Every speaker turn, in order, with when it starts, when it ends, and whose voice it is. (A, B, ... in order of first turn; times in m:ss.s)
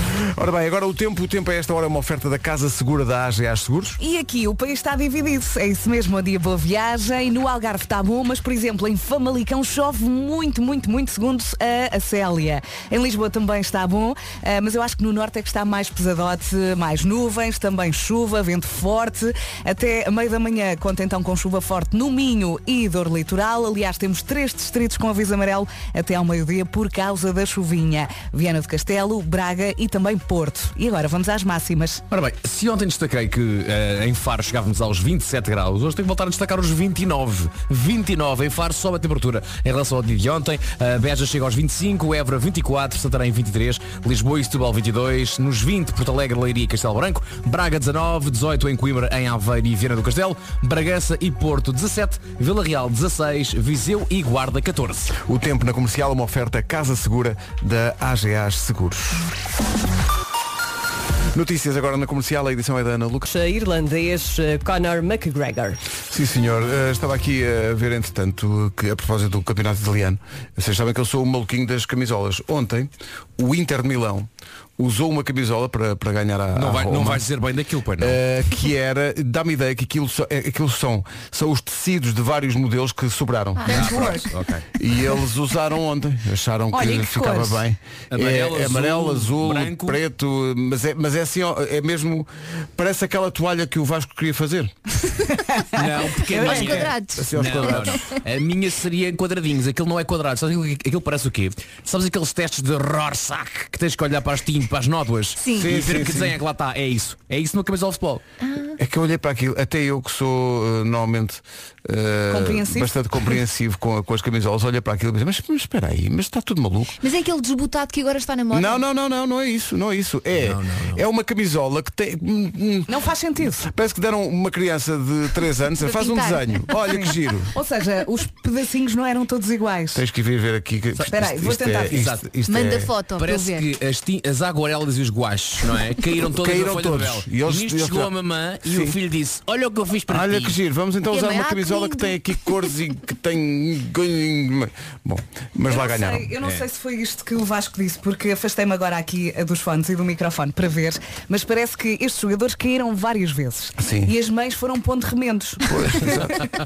0:00.2-0:04.0 A
0:04.0-0:32.0 B
0:32.1-0:55.1 C
0:55.2-0:59.3 A
1:01.3-1:03.3 A
1:03.3-1:05.8 D
1:06.1-1:17.2 A
1:16.6-1:18.2 C
1:18.0-1:24.2 A
1:23.6-1:24.7 C
1:23.7-1:24.3 B
1:24.8-1:34.7 A
1:26.7-1:27.6 B
1:28.1-1:30.0 C
1:35.3-1:36.9 B
1:35.7-1:48.2 C
1:36.3-1:38.2 E
1:37.2-1:38.1 A
1:45.6-1:46.4 A
1:48.4-1:48.8 E
1:48.8-1:57.0 A
1:52.3-1:52.9 B
1:57.0-1:58.8 E
1:58.5-2:02.9 A
2:00.4-2:01.0 C
2:02.9-2:03.6 B
2:03.6-2:07.5 A
2:05.8-2:06.7 E
2:06.9-2:10.0 B
2:09.9-2:12.9 A
2:11.1-2:12.0 B
2:11.9-2:12.3 C
2:12.5-2:13.7 E
2:13.2-2:20.6 C
2:16.3-2:18.1 A
2:18.6-2:19.0 A
2:20.1-2:26.3 A
2:21.1-2:22.7 E
2:25.7-2:36.3 B
2:33.8-2:34.1 A
2:35.7-2:36.3 A